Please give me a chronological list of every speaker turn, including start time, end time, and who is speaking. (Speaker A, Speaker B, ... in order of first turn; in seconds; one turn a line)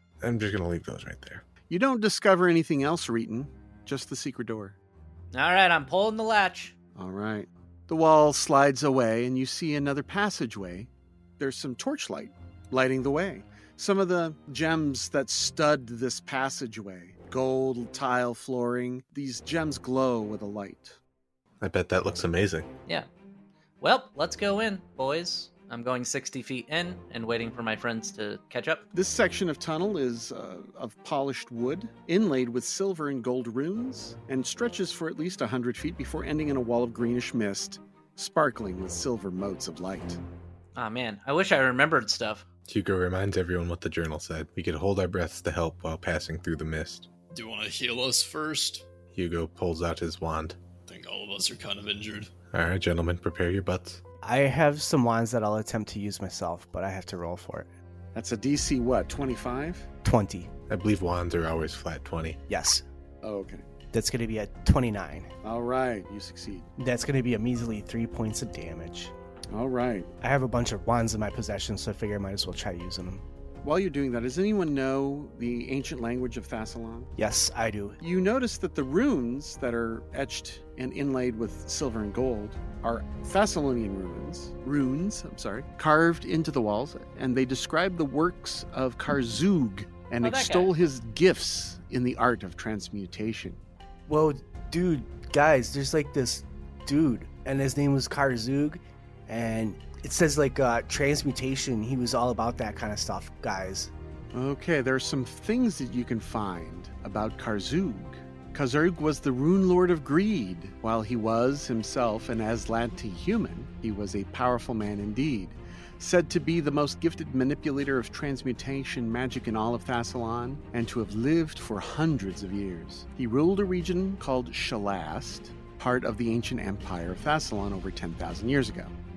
Speaker A: 0.2-1.4
Speaker B: 1.7-4.8
Speaker C: 5.3-6.7
Speaker B: 7.0-21.0
Speaker A: 21.6-22.7
Speaker C: 23.8-28.8
Speaker B: 28.9-40.2
Speaker C: 40.8-42.5
Speaker A: 42.7-47.1
Speaker D: 47.3-48.8
Speaker A: 49.1-50.5
Speaker D: 50.9-52.3
Speaker A: 52.5-54.0
Speaker E: 54.2-57.7
Speaker B: 58.1-59.9
Speaker E: 60.0-60.5
Speaker A: 60.7-62.4
Speaker E: 62.5-62.8
Speaker B: 63.2-63.6
Speaker E: 63.9-65.3
Speaker B: 65.4-66.7
Speaker E: 66.8-69.1
Speaker B: 69.5-70.1
Speaker E: 70.2-73.2
Speaker B: 73.6-77.1
Speaker E: 77.2-78.0
Speaker B: 78.0-93.6
Speaker C: 90.2-90.7
Speaker E: 94.1-103.9
Speaker B: 104.3-128.9